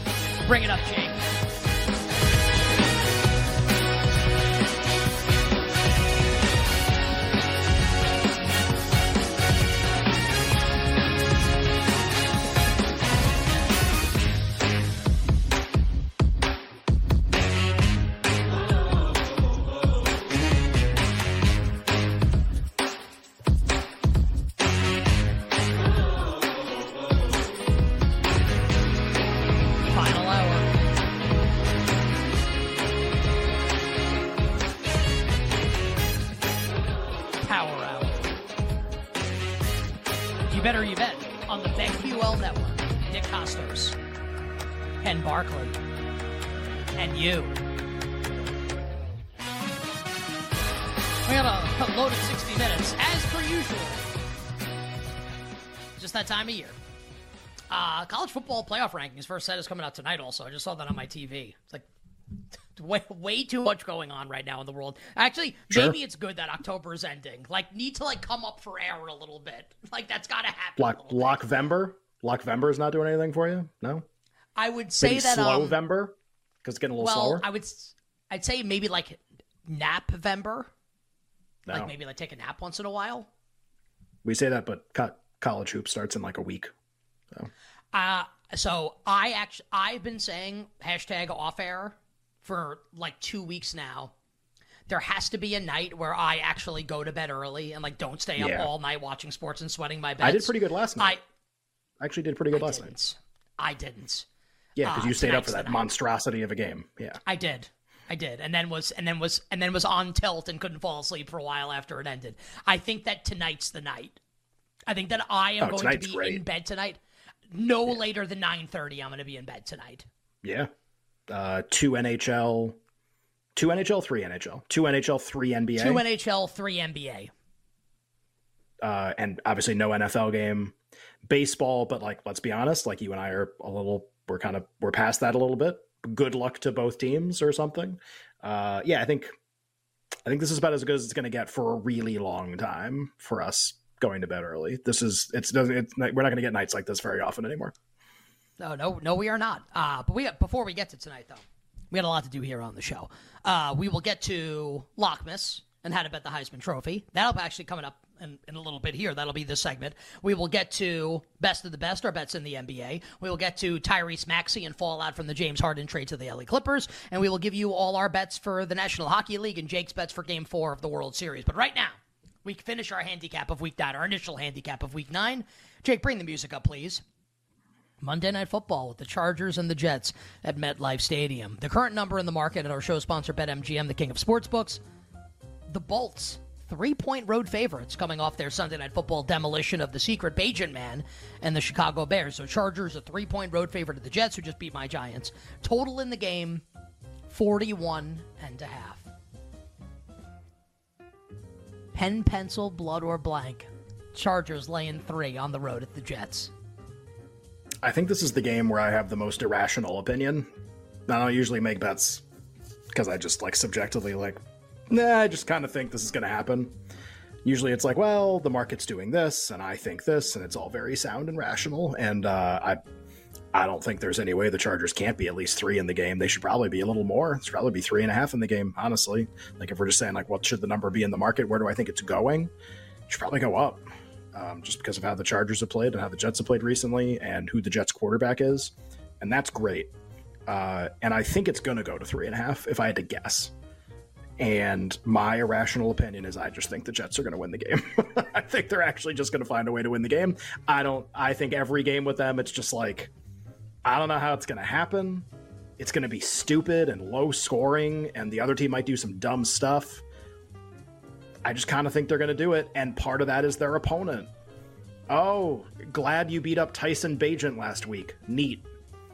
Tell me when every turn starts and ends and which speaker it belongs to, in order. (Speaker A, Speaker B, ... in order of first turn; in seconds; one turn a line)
Speaker A: 0.4-1.2
Speaker A: 29.9-30.7
Speaker A: 37.4-38.3
Speaker A: 40.5-44.0
Speaker A: 45.0-45.8
Speaker A: 47.0-47.6
Speaker A: 51.2-54.1
Speaker A: 56.0-56.8
Speaker A: 57.7-61.9
Speaker A: 62.7-71.4
Speaker B: 65.7-66.0
Speaker B: 70.8-74.0
Speaker A: 74.6-75.8
Speaker B: 75.0-77.5
Speaker A: 77.0-80.7
Speaker B: 81.7-81.9
Speaker A: 81.7-83.3
Speaker B: 84.2-86.7
Speaker A: 87.9-94.1
Speaker A: 94.9-101.2
Speaker B: 98.4-98.7
Speaker B: 100.2-101.2
Speaker B: 102.0-103.0
Speaker A: 102.5-104.2
Speaker B: 104.8-107.2
Speaker A: 104.8-105.9
Speaker A: 107.2-114.2
Speaker A: 114.9-117.0
Speaker B: 115.6-116.4
Speaker A: 117.5-120.0
Speaker B: 120.4-120.7
Speaker B: 121.3-122.8
Speaker B: 123.5-126.0
Speaker A: 125.8-127.3
Speaker B: 128.8-139.3
Speaker B: 140.2-147.7
Speaker A: 148.6-177.0
Speaker A: 178.0-184.8
Speaker A: 185.7-196.6
Speaker A: 197.3-199.1
Speaker A: 201.9-206.5
Speaker B: 207.8-210.5
Speaker B: 211.1-212.2
Speaker B: 212.9-214.4
Speaker B: 214.9-216.7
Speaker B: 217.4-222.8
Speaker B: 223.5-232.5
Speaker B: 233.1-239.9
Speaker B: 240.5-243.5
Speaker B: 244.4-253.1
Speaker B: 253.8-255.3
Speaker B: 255.8-260.0
Speaker B: 261.4-264.3
Speaker B: 265.1-268.6